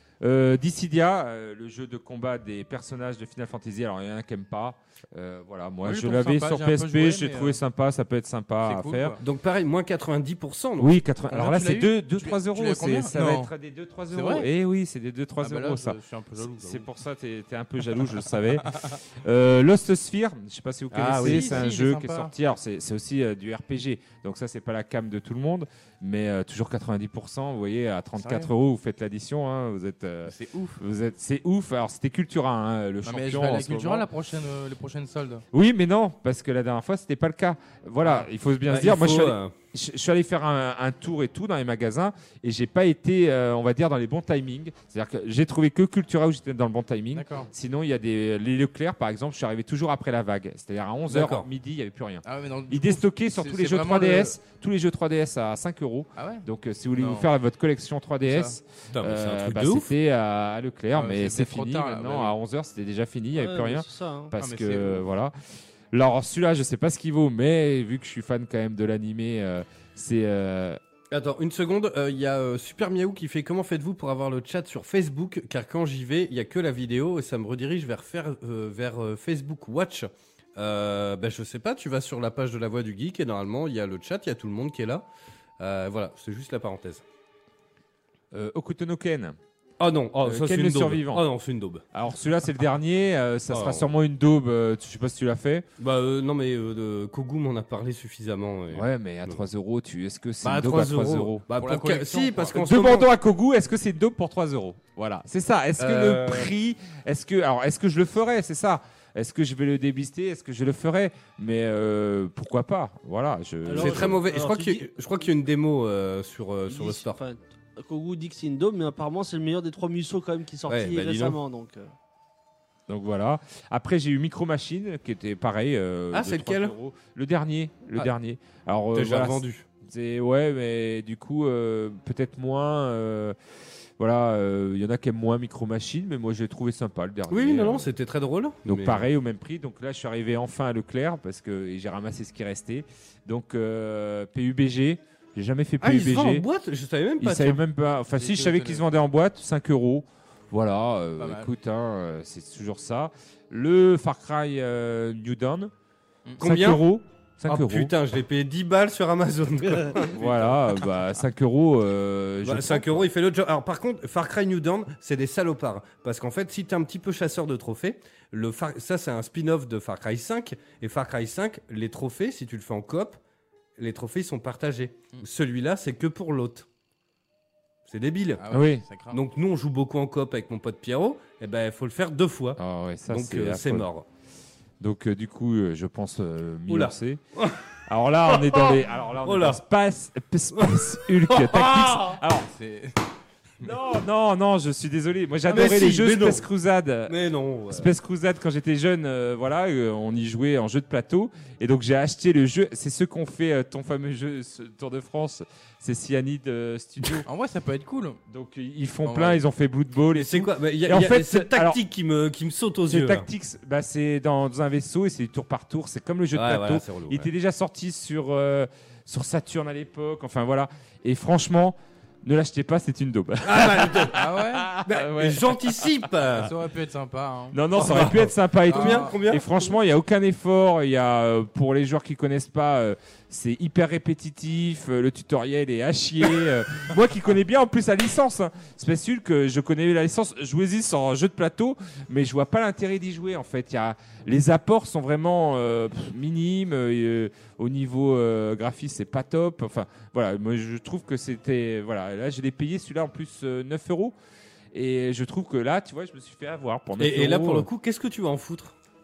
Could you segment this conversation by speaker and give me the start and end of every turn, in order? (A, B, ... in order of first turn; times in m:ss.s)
0:00.2-0:09.2 A
0:05.8-0:07.6 B
0:08.6-0:09.2 B
0:09.2-0:10.9 C
0:10.8-0:34.1 A
0:11.3-0:13.5 B
0:14.1-0:14.5 B
0:15.4-0:16.9 B
0:20.9-0:21.6 C
0:21.2-0:22.3 B
0:28.2-0:28.5 B
0:30.3-0:30.8 B
0:33.0-0:35.4 B
0:35.5-1:05.4 A
0:38.7-0:39.5 C
0:47.2-0:47.5 B
0:51.1-0:51.5 C
0:52.2-0:54.4 B
0:56.2-0:57.3 B
0:58.2-0:58.6 B
0:58.9-0:59.9 C
1:01.0-1:02.4 B
1:03.4-1:04.3 D
1:04.4-1:05.0 B
1:05.9-1:10.8 A
1:11.1-1:25.1 C
1:25.6-1:27.0 C
1:28.3-1:29.4 A
1:29.8-1:31.8 C
1:30.2-1:31.3 A
1:31.9-1:35.7 A
1:33.5-1:33.9 C
1:35.8-1:39.4 C
1:38.7-1:54.2 A
1:40.4-1:43.1 C
1:41.6-1:42.6 B
1:45.8-1:46.5 C
1:53.6-1:55.2 D
1:53.8-1:57.2 C
1:56.7-2:01.9 D
2:00.7-2:01.4 C
2:02.9-2:13.4 A
2:06.1-2:06.7 C
2:08.9-2:09.7 C
2:14.0-2:17.9 A
2:17.3-2:19.1 C
2:18.7-2:26.5 A
2:25.8-2:27.6 C
2:27.2-2:35.7 A
2:28.1-2:28.8 B
2:31.2-2:31.5 B
2:36.4-2:36.8 C
2:36.4-2:37.9 A
2:37.5-2:40.2 C
2:40.1-2:43.1 A
2:40.2-2:40.6 B
2:42.4-2:53.2 C
2:53.8-2:56.7 C
2:57.9-2:58.4 C
2:58.4-2:59.2 B
2:58.5-2:58.9 A
2:59.1-3:04.1 C
3:02.6-3:03.9 A
3:04.8-3:07.2 A
3:06.7-3:07.6 C
3:07.9-3:12.5 A
3:08.3-3:09.6 C
3:10.6-3:12.2 C
3:12.5-3:13.0 B
3:13.6-3:17.2 A
3:15.5-3:16.5 C
3:17.1-3:17.9 C
3:17.7-3:27.3 A
3:27.3-3:28.2 B
3:28.3-3:31.8 A
3:29.0-3:29.4 B
3:30.1-3:33.3 C
3:32.9-3:45.9 A
3:36.3-3:37.3 C
3:43.4-3:44.2 C
3:44.2-3:45.3 B
3:44.9-3:46.5 C
3:46.4-3:47.6 B
3:47.5-4:14.2 A
3:47.7-3:49.7 C
3:48.7-3:49.1 B
4:14.7-4:17.7 A
4:17.0-4:18.8 C